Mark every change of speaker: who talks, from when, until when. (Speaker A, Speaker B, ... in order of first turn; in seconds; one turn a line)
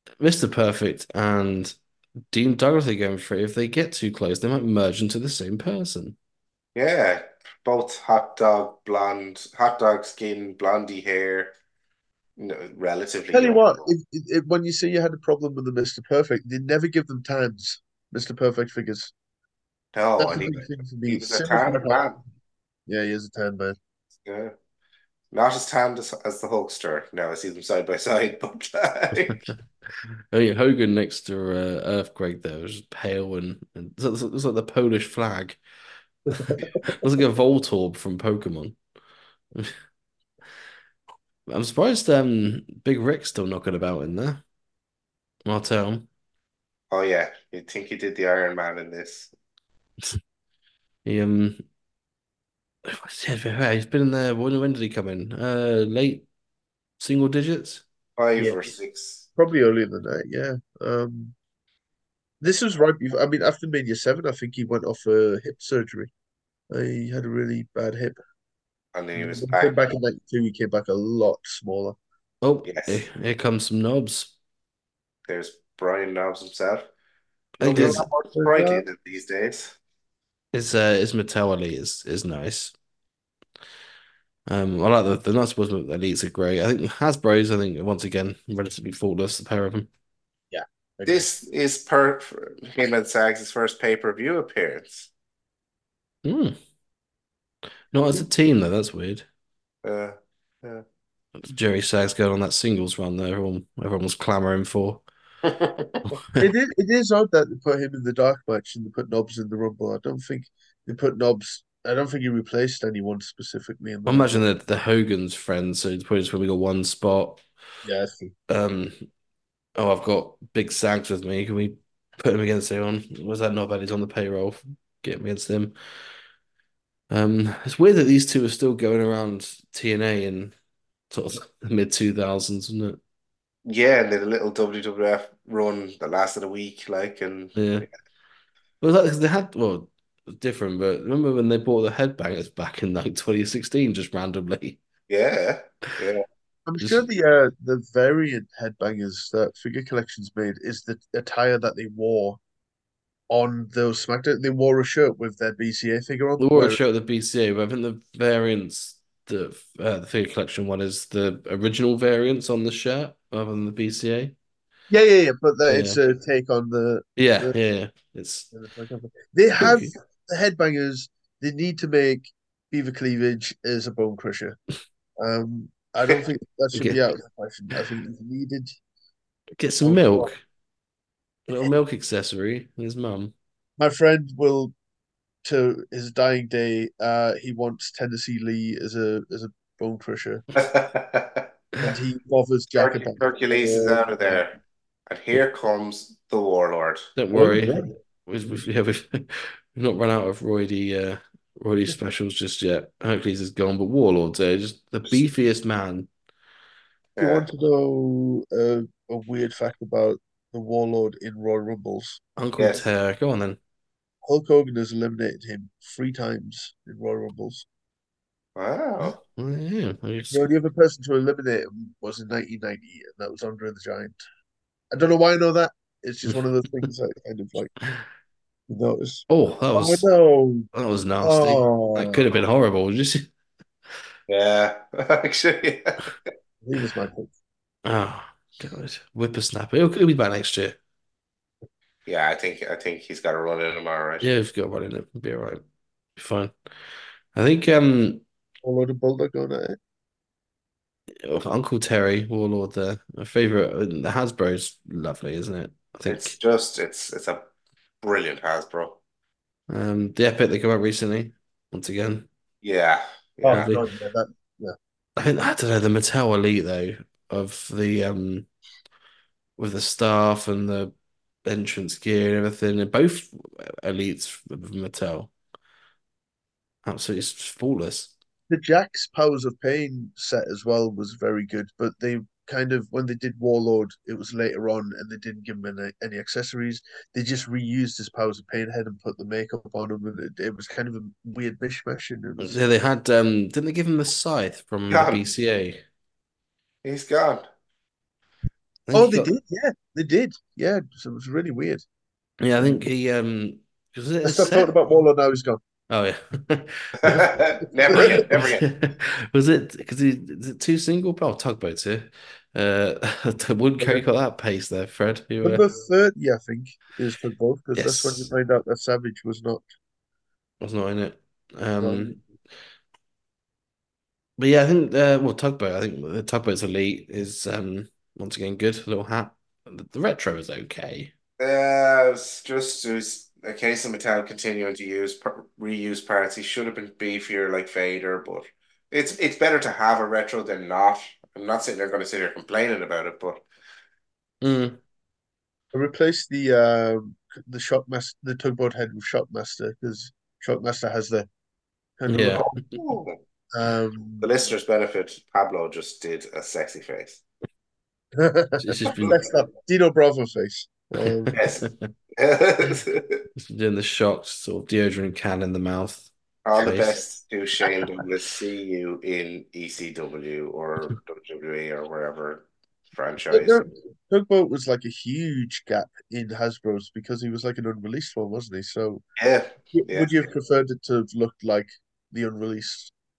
Speaker A: 0.2-1.8
Speaker A: 2.3-6.2
Speaker B: 6.7-11.5
Speaker B: 12.4-13.9
Speaker C: 13.3-19.1
Speaker B: 19.9-22.2
Speaker C: 20.2-22.1
Speaker C: 22.9-23.8
Speaker B: 24.2-24.5
Speaker B: 25.3-29.4
Speaker A: 30.3-35.6
Speaker C: 36.3-36.8
Speaker A: 36.3-38.8
Speaker A: 41.5-44.4
Speaker A: 45.5-46.1
Speaker B: 46.9-49.3
Speaker A: 51.0-51.6
Speaker A: 52.8-56.2
Speaker A: 57.0-57.8
Speaker B: 58.2-59.3
Speaker C: 58.4-58.7
Speaker C: 59.4-61.3
Speaker C: 62.4-66.1
Speaker C: 66.7-68.2
Speaker B: 68.9-69.7
Speaker C: 69.2-72.0
Speaker A: 72.4-74.3
Speaker B: 72.6-73.0
Speaker B: 75.3-76.9
Speaker A: 77.6-78.0
Speaker B: 77.6-79.7
Speaker C: 77.7-78.8
Speaker A: 80.5-82.7
Speaker A: 84.5-89.9
Speaker C: 90.5-91.3
Speaker B: 91.0-95.1
Speaker A: 96.2-96.5
Speaker A: 97.9-99.3
Speaker B: 99.8-100.8
Speaker A: 101.4-105.0
Speaker B: 105.5-106.0
Speaker C: 106.4-114.4
Speaker A: 114.1-117.4
Speaker C: 117.8-118.3
Speaker A: 118.5-119.0
Speaker A: 119.8-125.7
Speaker A: 127.1-130.5
Speaker A: 131.1-133.0
Speaker B: 133.6-137.6
Speaker A: 137.6-137.9
Speaker A: 138.8-144.8
Speaker B: 145.1-146.2
Speaker C: 146.7-152.4
Speaker C: 153.3-156.8
Speaker A: 156.4-164.3
Speaker C: 164.9-167.6
Speaker A: 165.7-166.0
Speaker A: 167.2-168.5
Speaker C: 168.5-174.6
Speaker A: 169.6-169.9
Speaker C: 175.2-178.7
Speaker A: 176.7-177.0
Speaker A: 179.6-180.4
Speaker C: 179.8-180.3
Speaker A: 181.5-183.3
Speaker C: 183.8-184.7
Speaker C: 185.4-190.4
Speaker B: 190.6-191.4
Speaker C: 191.8-194.4
Speaker B: 192.8-194.6
Speaker B: 195.1-197.1
Speaker A: 197.2-206.1
Speaker C: 197.3-197.9
Speaker B: 207.2-207.5
Speaker C: 207.2-212.2
Speaker A: 212.4-213.6
Speaker B: 212.6-212.8
Speaker C: 214.2-217.7
Speaker B: 218.6-219.2
Speaker A: 219.2-220.5
Speaker C: 220.3-224.2
Speaker C: 224.9-227.7
Speaker A: 226.3-226.8
Speaker C: 228.7-230.7
Speaker A: 229.3-230.1
Speaker A: 230.7-233.3
Speaker C: 231.2-232.3
Speaker B: 234.3-236.1
Speaker C: 236.6-237.3
Speaker A: 237.8-240.8
Speaker B: 242.1-244.3
Speaker A: 244.2-245.6
Speaker A: 246.2-246.5
Speaker A: 247.3-248.2
Speaker C: 248.6-249.8
Speaker A: 251.2-256.4
Speaker B: 256.1-257.4
Speaker B: 258.0-259.0
Speaker A: 259.7-262.3
Speaker B: 262.6-263.7
Speaker C: 263.4-264.8
Speaker A: 263.5-263.8
Speaker A: 265.1-268.5
Speaker A: 269.6-270.9
Speaker A: 271.4-275.3
Speaker A: 276.8-278.1
Speaker C: 278.5-292.6
Speaker A: 292.4-295.8
Speaker B: 294.9-295.2
Speaker B: 296.8-297.4
Speaker A: 298.9-299.3
Speaker C: 298.9-301.8
Speaker A: 302.4-304.7
Speaker C: 304.2-305.6
Speaker A: 305.9-307.3
Speaker B: 307.0-308.7
Speaker A: 307.9-315.7
Speaker C: 307.9-308.2
Speaker C: 313.8-314.1
Speaker C: 315.4-319.6
Speaker A: 317.8-318.3
Speaker A: 320.6-322.2
Speaker C: 321.8-322.2
Speaker A: 324.4-331.1
Speaker B: 331.4-343.4
Speaker A: 344.4-344.8
Speaker C: 345.7-351.3
Speaker C: 352.0-352.6
Speaker A: 352.1-352.5
Speaker B: 352.7-353.2
Speaker C: 353.5-354.3
Speaker B: 354.2-357.2
Speaker C: 358.2-361.4
Speaker A: 358.6-359.2
Speaker B: 358.9-359.3
Speaker A: 361.1-361.9
Speaker B: 361.3-363.2
Speaker A: 363.4-367.0
Speaker B: 366.4-373.6
Speaker C: 373.3-379.0
Speaker B: 379.2-380.3
Speaker C: 379.7-382.9